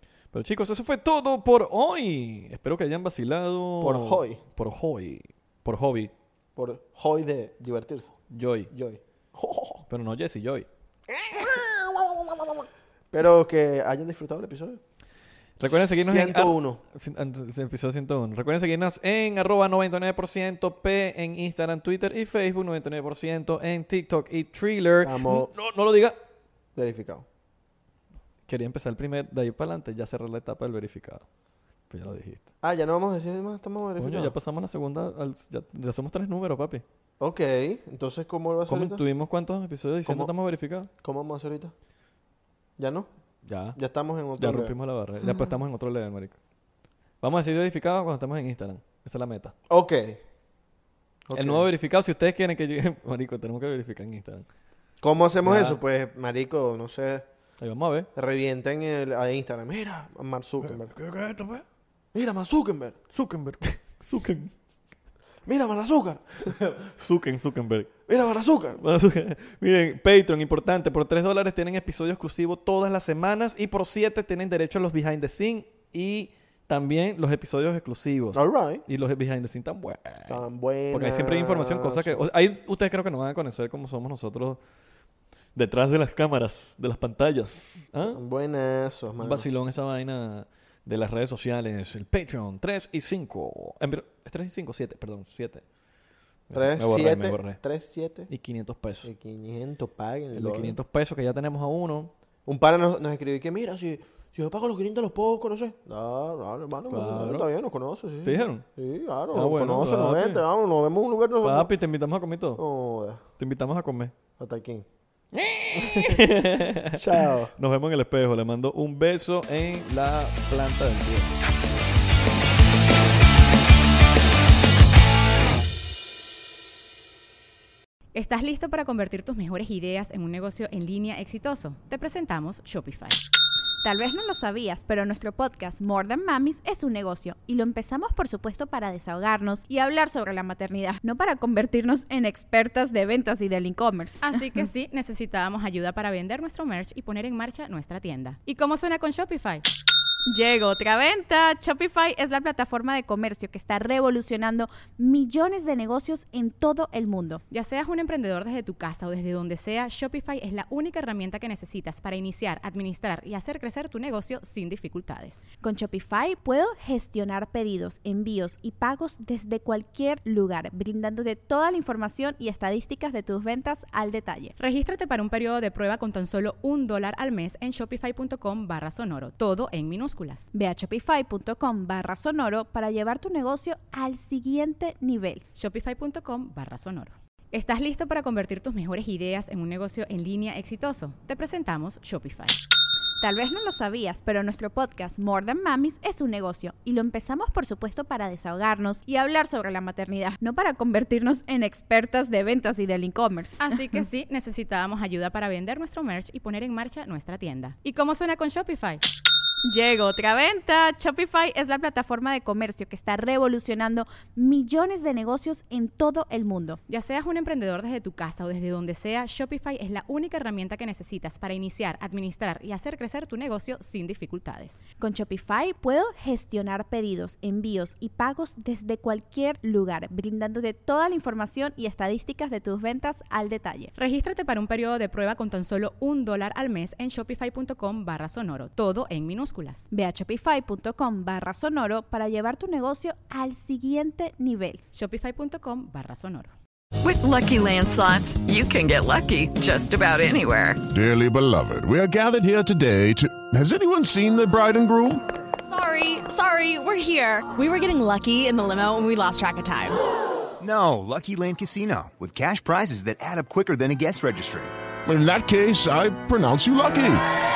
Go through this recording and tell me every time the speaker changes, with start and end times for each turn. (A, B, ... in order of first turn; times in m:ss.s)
0:00.3-0:06.1 A
0:03.8-0:04.4 B
0:06.6-0:08.1 B
0:08.3-0:08.7 A
0:08.7-0:09.8 B
0:09.9-0:10.7 A
0:11.2-0:11.7 B
0:13.1-0:14.8 B
0:15.6-0:26.2 A
0:15.7-0:16.8 B
0:25.0-0:25.5 B
0:26.8-0:27.2 B
0:28.4-0:31.2 A
0:31.9-0:32.5 A
0:32.6-0:34.3 B
0:34.0-0:36.8 A
0:37.2-0:39.0 B
0:38.7-0:40.9 A
0:40.0-0:40.3 B
0:40.9-0:41.7 B
0:42.8-0:43.1 B
0:43.4-0:43.8 A
0:43.7-0:44.7 B
0:44.4-0:46.4 A
0:47.2-0:49.5 A
0:49.7-0:50.2 B
0:51.3-0:51.7 B
0:51.3-0:54.4 A
0:55.0-0:57.3 B
0:55.4-0:55.8 A
0:57.6-0:58.1 A
0:58.1-1:00.9 B
1:00.6-1:01.6 A
1:02.1-1:03.0 B
1:03.1-1:04.5 A
1:05.4-1:06.6 B
1:06.4-1:07.9 A
1:08.1-1:08.8 B
1:08.8-1:24.6 A
1:18.3-1:18.8 B
1:20.3-1:22.2 B
1:25.5-1:28.2 A
1:28.1-1:29.5 B
1:29.2-1:35.6 A
1:36.5-1:37.6 A
1:36.5-1:38.3 B
1:38.3-1:39.1 A
1:39.0-1:40.8 B
1:40.3-1:42.1 A
1:42.4-1:51.7 B
1:46.9-1:47.5 A
1:48.2-1:48.6 A
1:49.3-1:50.4 A
1:51.4-1:52.6 A
1:52.6-1:53.2 B
1:53.4-1:54.1 A
1:54.4-1:54.8 B
1:55.3-2:01.4 A
1:55.7-1:56.2 B
1:56.9-1:57.5 B
2:08.1-2:13.2 C
2:13.8-2:24.4 D
2:24.2-2:29.6 C
2:30.3-2:37.4 D
2:37.5-2:45.4 C
2:45.6-2:54.5 D
2:54.6-3:00.5 C
3:00.5-3:05.4 D
3:05.6-3:12.6 C
3:13.2-3:23.7 D
3:23.6-3:29.0 C
3:29.6-3:36.8 D
3:36.9-3:44.8 C
3:45.0-3:53.9 D
3:54.0-3:59.9 C
3:59.9-4:04.8 D
4:04.9-4:06.5 C
4:07.0-4:10.8 E
4:10.9-4:15.2 F
4:15.6-4:20.0 G
4:20.6-4:24.7 H
4:25.0-4:27.2 F